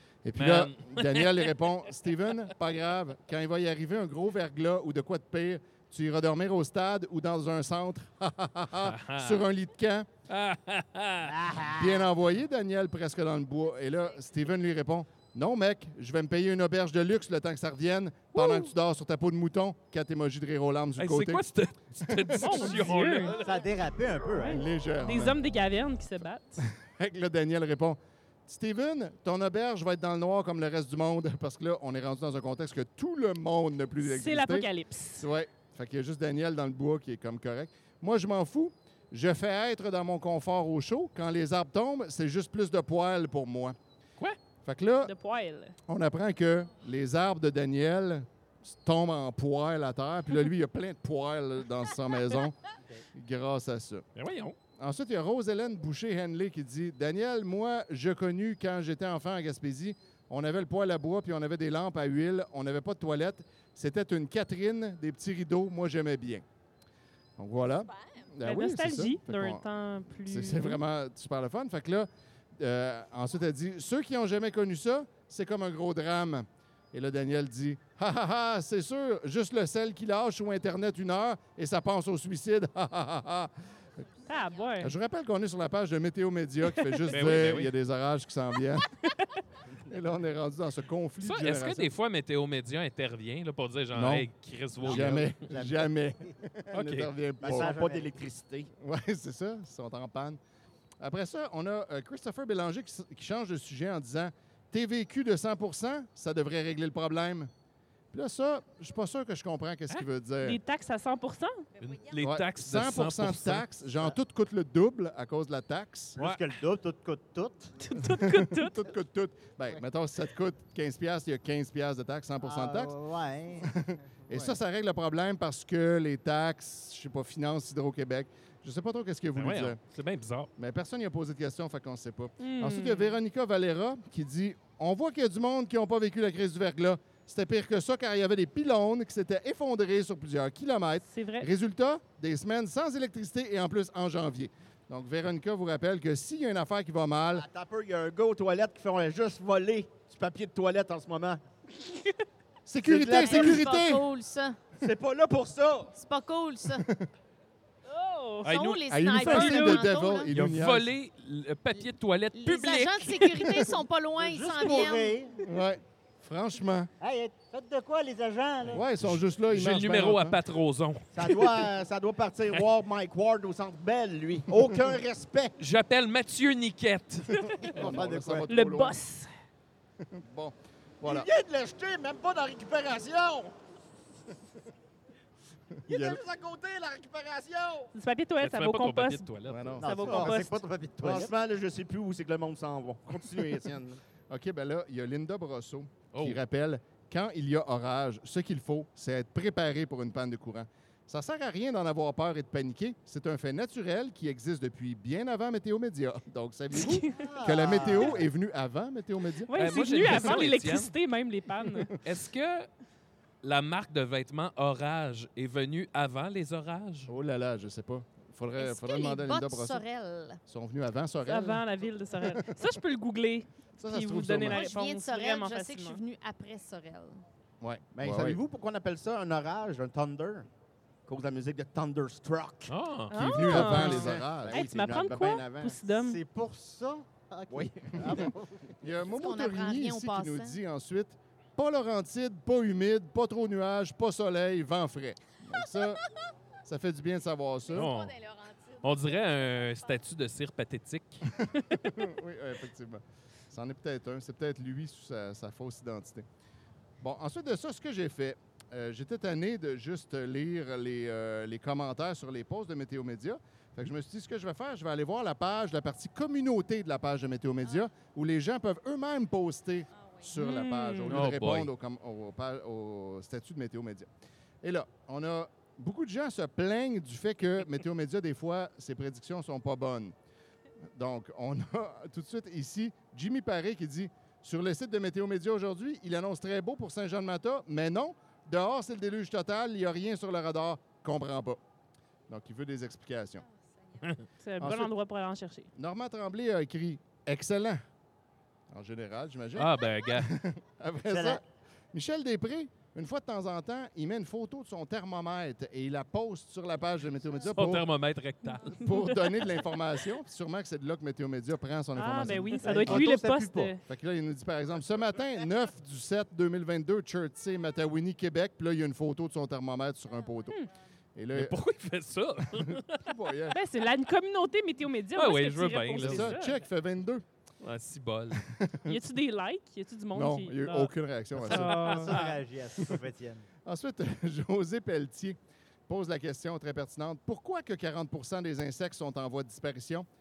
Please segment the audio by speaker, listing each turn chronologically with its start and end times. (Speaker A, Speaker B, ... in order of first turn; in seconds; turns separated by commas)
Speaker A: 0.2-10.1, Speaker B: 0.3-1.5, Speaker B: 8.8-9.4, Speaker B: 10.3-11.3, Speaker C: 11.2-12.1, Speaker A: 11.7-21.4, Speaker D: 18.3-18.7, Speaker B: 21.0-23.6, Speaker A: 22.1-22.9, Speaker D: 22.3-23.4, Speaker C: 23.3-24.6, Speaker D: 24.4-26.6, Speaker A: 24.4-25.4, Speaker A: 26.6-43.8, Speaker D: 34.0-35.2, Speaker A: 44.6-45.1, Speaker D: 45.0-45.7, Speaker A: 45.9-52.5, Speaker A: 53.1-54.0, Speaker B: 54.1-54.5, Speaker A: 54.8-66.4, Speaker A: 67.4-69.7, Speaker E: 67.9-68.2, Speaker D: 68.4-70.8, Speaker A: 70.2-83.5, Speaker D: 84.3-85.0, Speaker A: 84.8-88.9, Speaker D: 86.8-87.0, Speaker B: 87.1-87.7, Speaker D: 89.0-89.4, Speaker A: 89.9-91.9, Speaker B: 91.2-95.4, Speaker A: 93.9-94.3, Speaker A: 94.8-97.7, Speaker C: 94.8-95.9, Speaker B: 96.7-97.1, Speaker C: 97.4-98.2, Speaker F: 97.4-98.7, Speaker A: 98.8-100.4, Speaker A: 101.0-107.5, Speaker A: 108.1-110.6, Speaker D: 110.4-111.6, Speaker B: 111.8-113.7, Speaker A: 112.2-116.2, Speaker C: 116.2-117.8, Speaker D: 117.8-118.9, Speaker A: 118.0-122.9, Speaker C: 122.4-123.7, Speaker A: 123.6-129.8, Speaker C: 124.3-124.6, Speaker B: 129.4-130.5, Speaker A: 130.6-147.4, Speaker D: 132.4-133.2, Speaker D: 141.0-141.5, Speaker F: 147.3-151.4, Speaker D: 151.8-152.1, Speaker A: 152.7-154.0, Speaker F: 152.8-153.6, Speaker E: 153.2-154.6, Speaker F: 154.8-155.9, Speaker E: 155.9-156.9, Speaker D: 157.9-158.5, Speaker B: 158.4-158.8, Speaker E: 158.4-160.3, Speaker A: 158.9-160.9, Speaker D: 159.2-159.8, Speaker B: 160.3-163.6, Speaker E: 162.3-165.2, Speaker C: 164.2-165.4, Speaker A: 165.4-166.9, Speaker C: 167.0-168.8, Speaker A: 168.7-170.4, Speaker B: 169.5-171.1, Speaker F: 171.1-175.5, Speaker B: 175.6-177.4, Speaker D: 177.3-177.8, Speaker A: 177.6-179.0, Speaker C: 177.7-178.5, Speaker D: 178.5-179.3, Speaker A: 180.0-181.3, Speaker F: 181.0-183.5, Speaker F: 185.9-187.9, Speaker A: 185.9-186.2, Speaker D: 187.9-189.3, Speaker B: 188.4-189.8, Speaker A: 189.4-190.2, Speaker C: 189.8-191.3, Speaker D: 189.8-190.5, Speaker F: 189.9-190.3, Speaker F: 191.0-194.0, Speaker A: 193.1-209.5, Speaker B: 196.1-196.4, Speaker D: 206.7-207.3, Speaker C: 207.1-208.3, Speaker F: 207.7-208.0, Speaker D: 209.4-211.9, Speaker B: 209.5-210.9, Speaker A: 210.0-210.4, Speaker B: 212.0-212.7, Speaker B: 213.4-217.1, Speaker A: 217.1-219.8, Speaker E: 218.6-220.4, Speaker A: 220.5-221.7, Speaker D: 221.2-226.0, Speaker A: 222.2-222.7, Speaker A: 223.8-224.7, Speaker E: 224.5-227.2, Speaker A: 227.6-228.4, Speaker F: 227.9-230.4, Speaker F: 231.1-232.7, Speaker B: 232.7-234.2, Speaker A: 233.1-234.6, Speaker D: 233.1-236.2, Speaker F: 233.5-235.8, Speaker C: 235.9-238.7, Speaker F: 237.5-238.3, Speaker A: 238.8-246.0, Speaker E: 239.1-240.6, Speaker A: 246.6-247.9, Speaker E: 247.7-249.9, Speaker B: 247.7-248.1, Speaker B: 248.8-251.2, Speaker A: 251.4-256.2, Speaker A: 257.0-274.1, Speaker E: 269.9-270.3, Speaker D: 270.3-271.1, Speaker B: 271.1-271.7, Speaker A: 274.6-280.1, Speaker A: 280.9-291.6, Speaker A: 292.3-293.4, Speaker E: 293.5-294.1, Speaker D: 294.4-295.7, Speaker A: 294.6-294.9, Speaker A: 295.7-297.8, Speaker A: 298.7-301.4, Speaker B: 299.6-300.3, Speaker C: 301.1-301.4, Speaker A: 301.9-307.9, Speaker B: 307.5-308.9, Speaker D: 308.5-309.3, Speaker A: 308.8-320.6, Speaker D: 311.9-313.8, Speaker A: 321.1-321.6, Speaker B: 321.3-323.1, Speaker A: 322.5-323.6, Speaker D: 323.5-326.6, Speaker B: 325.1-326.4, Speaker A: 326.0-327.2, Speaker B: 327.6-328.5, Speaker A: 328.5-329.0, Speaker D: 328.8-332.1, Speaker A: 330.1-332.0, Speaker C: 331.4-333.5, Speaker B: 331.9-332.3, Speaker A: 333.6-335.4, Speaker A: 335.9-340.1